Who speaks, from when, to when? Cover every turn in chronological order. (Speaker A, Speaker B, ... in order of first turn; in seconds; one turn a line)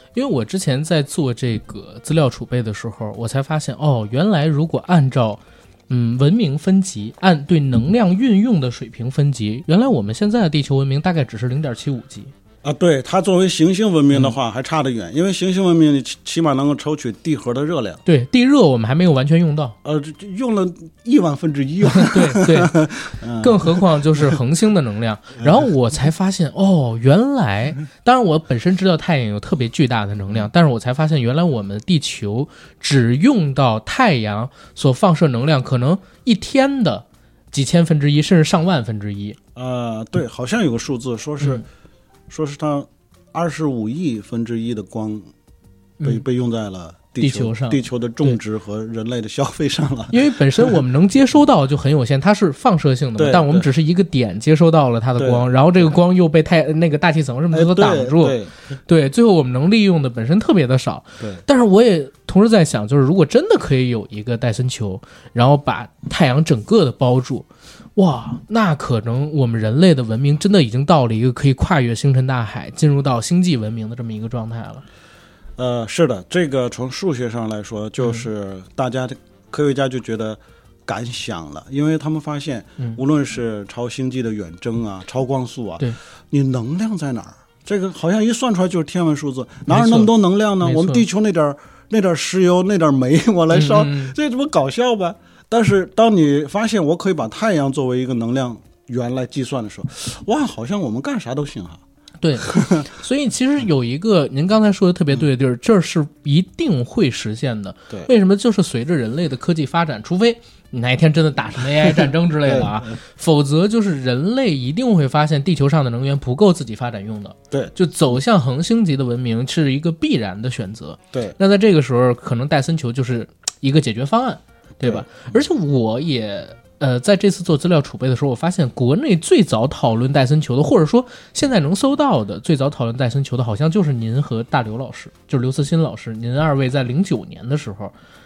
Speaker A: 0.1-12.3
Speaker B: 12.6-18.0
Speaker A: 18.0-19.8
Speaker B: 19.8-24.4
Speaker A: 21.9-22.7
Speaker A: 23.4-39.4
Speaker B: 39.5-41.6
Speaker B: 42.3-45.3
Speaker B: 46.0-50.8
Speaker A: 47.2-48.4
Speaker A: 50.1-74.8
Speaker B: 53.2-53.7
Speaker B: 55.2-55.9
Speaker B: 57.5-58.5
Speaker B: 75.6-101.8
Speaker A: 89.7-90.1
Speaker A: 90.6-91.0
Speaker A: 93.5-94.1
Speaker A: 102.2-137.9
Speaker B: 102.4-102.8
Speaker B: 111.8-112.9
Speaker B: 124.8-125.4